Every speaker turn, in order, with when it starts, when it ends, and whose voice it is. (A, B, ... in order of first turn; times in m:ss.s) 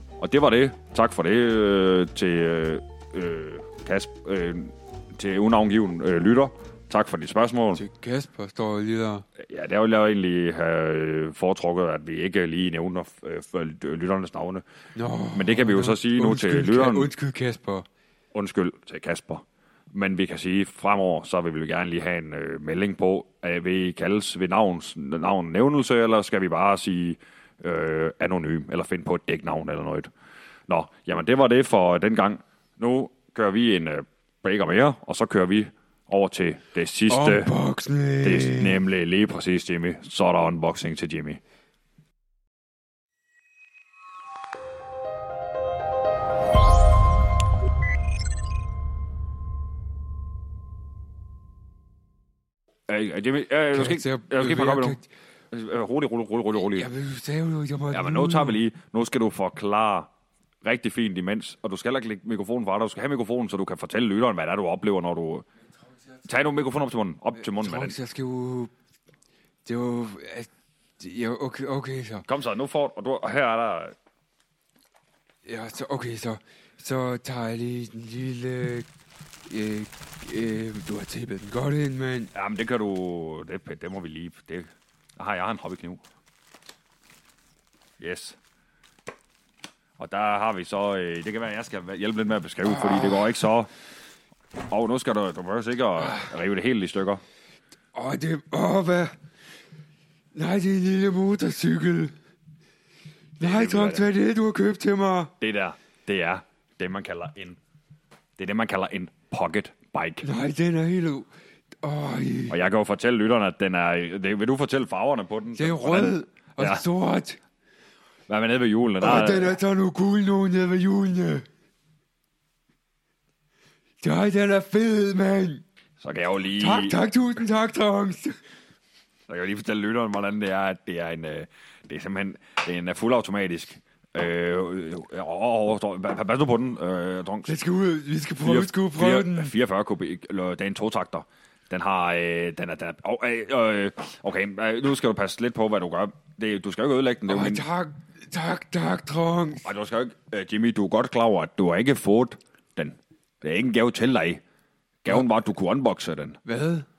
0:00.2-0:07.8 A
0:07.7-0:09.2 B
0:09.4-0:14.6 A
0:14.9-0:17.8 B
0:15.3-0:17.1 A
0:18.3-0:30.1 A
0:30.7-0:37.5 A
0:37.1-0:38.8 B
0:38.2-0:41.4 A
0:52.9-0:55.0 A
0:53.7-0:55.1 B
0:55.5-0:56.9 A
0:56.5-0:58.6 B
0:57.9-1:00.1 A
1:00.6-1:05.4 A
1:06.2-1:08.0 A
1:07.4-1:08.7 B
1:09.6-1:12.2 B
1:12.2-1:14.0 A
1:15.4-1:18.9 B
1:19.4-1:22.3 B
1:22.3-1:26.0 A
1:28.0-1:28.4 A
1:30.0-1:33.7 A
1:32.6-1:33.3 B
1:34.7-1:37.2 A
1:36.0-1:36.3 B
1:37.9-1:39.1 B
1:40.3-1:42.1 B
1:43.4-1:45.3 B
1:43.4-1:44.1 A
1:45.4-1:47.6 A
1:48.4-1:50.2 A
1:50.2-1:51.3 B
1:51.8-1:52.6 B
1:52.5-1:56.8 A
1:55.5-1:57.4 B
1:58.3-1:59.6 A
1:59.0-2:01.4 B
2:04.0-2:05.6 B
2:06.0-2:07.0 A
2:06.6-2:08.4 B
2:09.3-2:17.5 A
2:17.4-2:19.5 B
2:18.4-2:27.6 A
2:27.3-2:29.7 B
2:29.6-2:34.4 A
2:35.0-2:36.4 A
2:36.4-2:36.9 B